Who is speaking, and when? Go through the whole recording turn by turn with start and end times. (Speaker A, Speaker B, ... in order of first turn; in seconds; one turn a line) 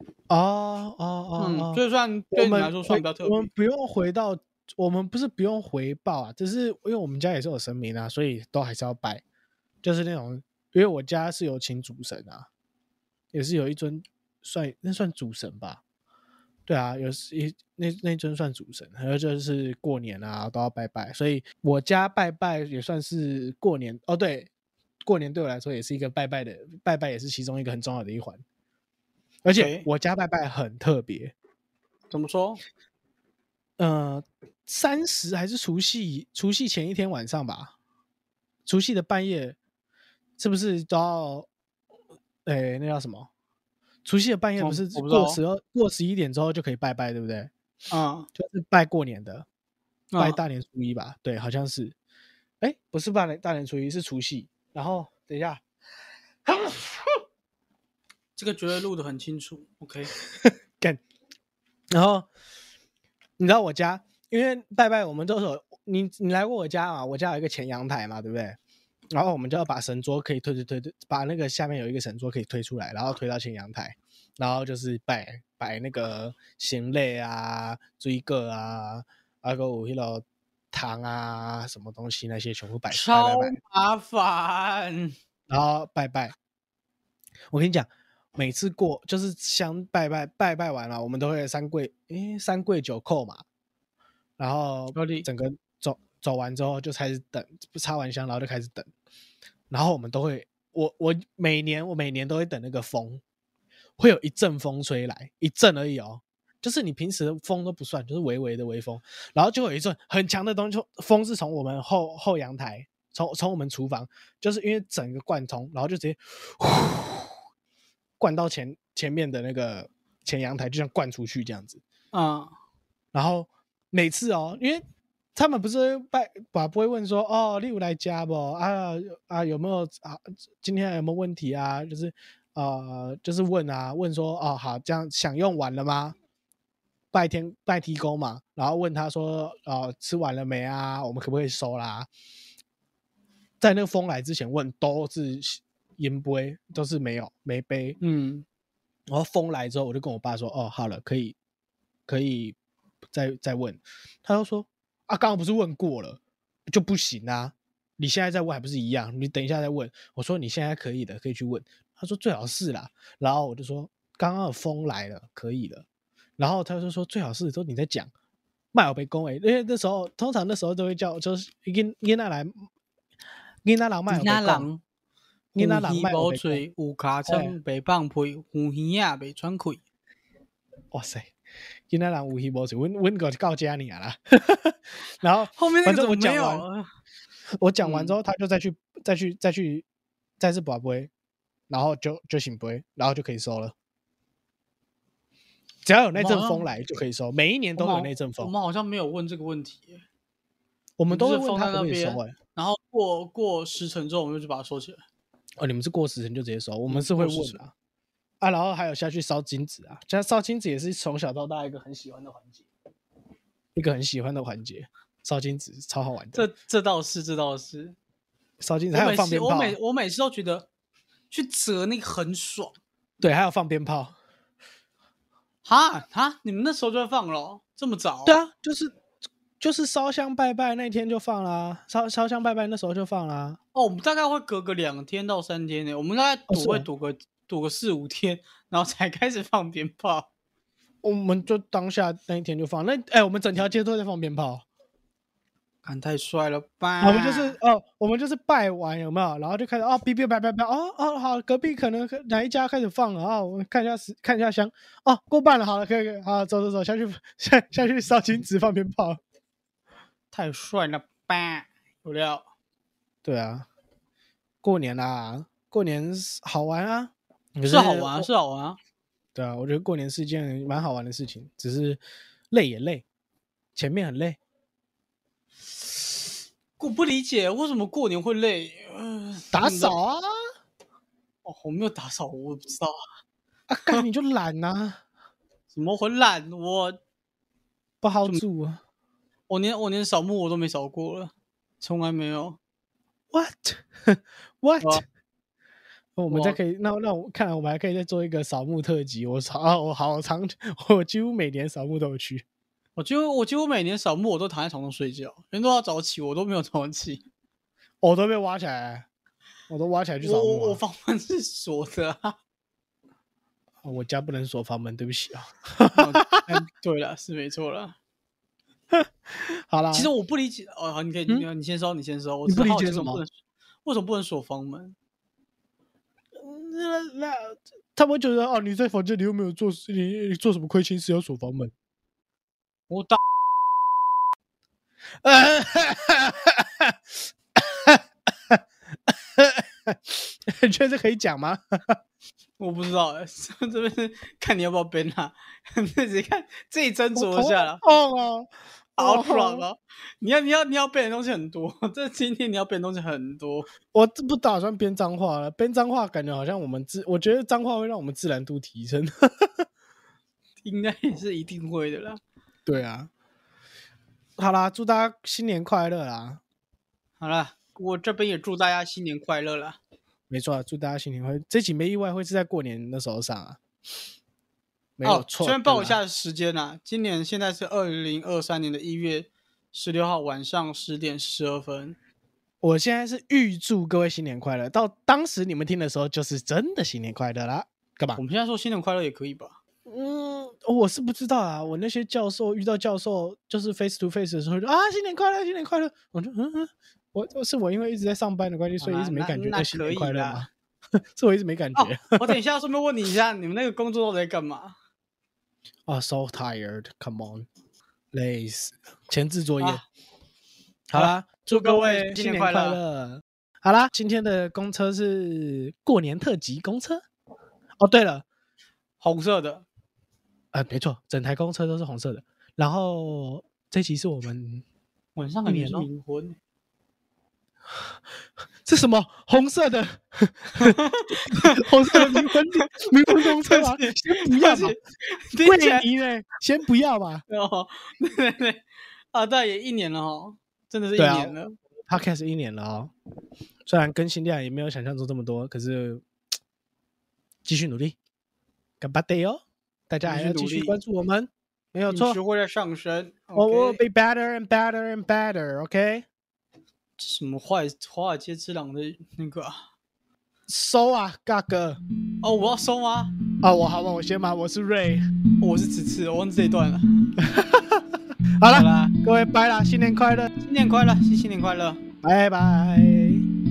Speaker A: 0.3-1.8
Speaker B: 1.4-3.5
Speaker A: 2.3-9.2
Speaker A: 9.8-12.5
Speaker A: 13.3-15.8
Speaker A: 16.7-24.5
Speaker A: 25.0-28.4
Speaker A: 29.4-31.3
Speaker B: 29.5-29.9
Speaker B: 32.1-32.6
Speaker A: 33.8-37.7
Speaker A: 38.6-39.6
Speaker A: 40.4-41.5
Speaker A: 42.5-43.3
Speaker A: 44.0-47.5
Speaker B: 44.6-45.4
Speaker B: 47.9-48.3
Speaker A: 48.4-49.5
Speaker B: 50.1-50.4
Speaker A: 50.2-52.0
Speaker A: 52.6-55.6
Speaker A: 56.5-56.9
Speaker B: 58.4-60.1
Speaker A: 60.3-61.0
Speaker A: 61.9-62.3
Speaker A: 63.4-68.6
Speaker A: 69.1-83.6
Speaker B: 82.9-85.2
Speaker A: 85.5-86.3
Speaker A: 87.5-93.4
Speaker A: 94.4-98.9
Speaker B: 94.9-95.3
Speaker A: 99.7-103.2
Speaker A: 104.0-117.3
Speaker A: 118.2-121.8
Speaker B: 122.1-122.5
Speaker A: 123.1-124.8
Speaker A: 125.3-136.1
Speaker A: 137.1-142.1
Speaker A: 143.6-148.0
Speaker B: 148.0-148.4
Speaker A: 149.1-151.3
Speaker A: 152.1-152.6
Speaker A: 153.1-165.8
Speaker A: 166.4-168.1
Speaker A: 168.7-172.6
Speaker A: 173.6-174.7
Speaker B: 174.1-174.8
Speaker A: 175.5-176.6
Speaker B: 175.6-179.8
Speaker A: 177.2-177.5
Speaker A: 180.9-181.3
Speaker A: 181.9-186.6
Speaker B: 185.5-186.8
Speaker A: 187.6-189.8
Speaker B: 187.8-188.2
Speaker A: 190.4-191.1
Speaker A: 191.7-193.7
Speaker A: 195.8-198.5
Speaker B: 196.1-196.7
Speaker B: 197.8-200.0
Speaker A: 201.0-202.3
Speaker B: 201.1-205.0
Speaker A: 205.6-207.7
Speaker B: 206.9-207.6
Speaker A: 208.4-212.7
Speaker A: 213.7-216.5
Speaker B: 216.3-217.9
Speaker A: 218.6-219.8
Speaker B: 218.9-220.7
Speaker B: 221.3-222.8
Speaker A: 223.2-224.2
Speaker B: 225.6-228.4
Speaker A: 228.2-228.9
Speaker A: 229.6-233.6
Speaker B: 233.7-240.3
Speaker A: 236.5-236.8
Speaker A: 241.0-244.6
Speaker B: 245.8-247.6
Speaker A: 247.0-259.2
Speaker B: 260.3-262.4
Speaker A: 263.2-263.6
Speaker A: 264.6-268.3
Speaker B: 267.6-268.8
Speaker A: 269.3-273.0
Speaker A: 273.8-274.4
Speaker B: 276.8-279.9
Speaker A: 279.5-280.3
Speaker B: 281.4-282.9
Speaker A: 283.7-285.0
Speaker B: 285.7-287.0
Speaker A: 288.0-288.8
Speaker B: 289.5-292.6
Speaker A: 293.3-295.0
Speaker A: 296.2-302.4
Speaker B: 296.3-296.6
Speaker B: 302.9-307.2
Speaker A: 308.0-309.1
Speaker A: 309.7-310.8
Speaker B: 310.2-312.4
Speaker A: 313.8-316.6
Speaker B: 315.9-317.9
Speaker A: 318.9-320.1
Speaker B: 319.9-323.3
Speaker A: 322.5-323.2
Speaker B: 323.8-324.9
Speaker A: 326.3-331.7
Speaker B: 332.9-333.2
Speaker A: 335.2-337.0
Speaker A: 337.5-342.0
Speaker B: 342.6-347.8
Speaker A: 347.1-349.7
Speaker B: 349.0-353.7
Speaker A: 353.9-359.6
Speaker B: 360.6-362.2
Speaker A: 362.6-363.1
Speaker A: 364.4-366.4
Speaker B: 367.2-369.8
Speaker A: 370.3-373.6
Speaker A: 375.0-376.0
Speaker B: 375.0-382.0
Speaker A: 382.6-388.2
Speaker B: 388.1-389.6
Speaker A: 389.9-400.5
Speaker B: 398.8-400.4
Speaker A: 401.1-402.4
Speaker B: 401.8-404.7
Speaker A: 405.9-407.5
Speaker A: 408.1-409.8
Speaker A: 410.9-417.0
Speaker B: 410.9-412.8
Speaker A: 417.8-418.2
Speaker B: 419.0-419.6
Speaker A: 420.5-424.6
Speaker B: 425.1-426.4
Speaker A: 425.5-425.9
Speaker A: 428.6-430.8
Speaker B: 430.6-432.3
Speaker A: 431.3-434.7
Speaker B: 433.2-435.8
Speaker A: 435.4-437.2
Speaker B: 437.3-441.6
Speaker A: 440.9-442.9
Speaker A: 443.6-446.0
Speaker A: 447.4-448.0
Speaker A: 448.8-452.2
Speaker B: 450.0-450.8
Speaker B: 451.9-453.8
Speaker A: 453.3-456.1
Speaker B: 457.0-459.6
Speaker A: 460.5-461.8
Speaker B: 462.2-463.1
Speaker A: 463.4-465.0
Speaker B: 465.4-466.9
Speaker A: 467.2-470.3
Speaker B: 468.5-468.9
Speaker B: 470.4-471.8
Speaker A: 472.0-473.2